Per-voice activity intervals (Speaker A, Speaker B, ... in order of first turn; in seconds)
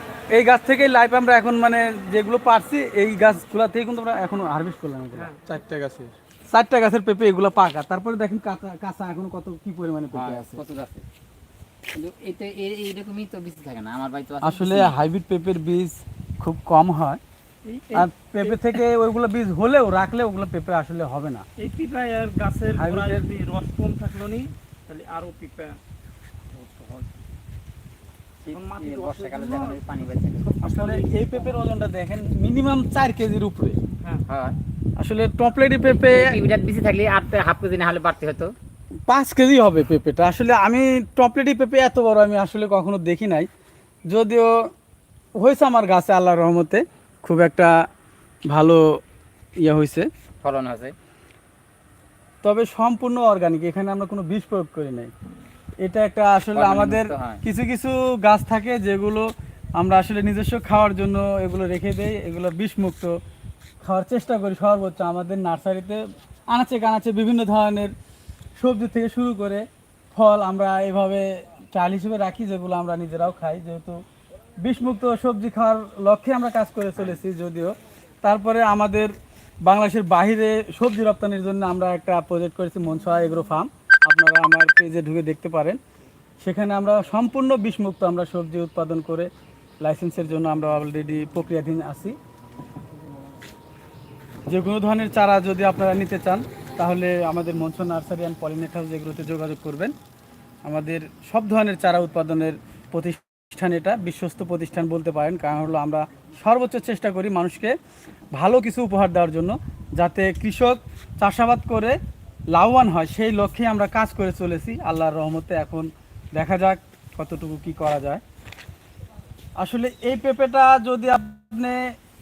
Speaker A: 0.3-10.6, 14.4-17.2, 17.9-21.4, 22.8-23.2, 30.6-33.8, 35.0-36.4, 39.1-43.5, 44.1-44.5, 45.4-47.8, 48.5-49.0, 49.6-50.1, 52.4-55.1, 55.8-63.1, 63.8-67.9, 68.6-74.0, 74.6-79.1, 79.7-85.8, 86.4-89.3, 89.8-92.2, 94.5-99.9, 100.7-107.8, 108.3-112.0, 112.5-118.2, 119.6-121.9
Speaker B: 10.1-11.0, 11.9-15.0, 28.4-30.5, 34.2-34.6, 35.8-38.5, 50.4-50.9, 56.5-57.4, 77.0-77.2
Speaker C: 17.6-18.7, 21.6-25.8, 26.5-27.0, 28.5-29.8, 30.4-31.6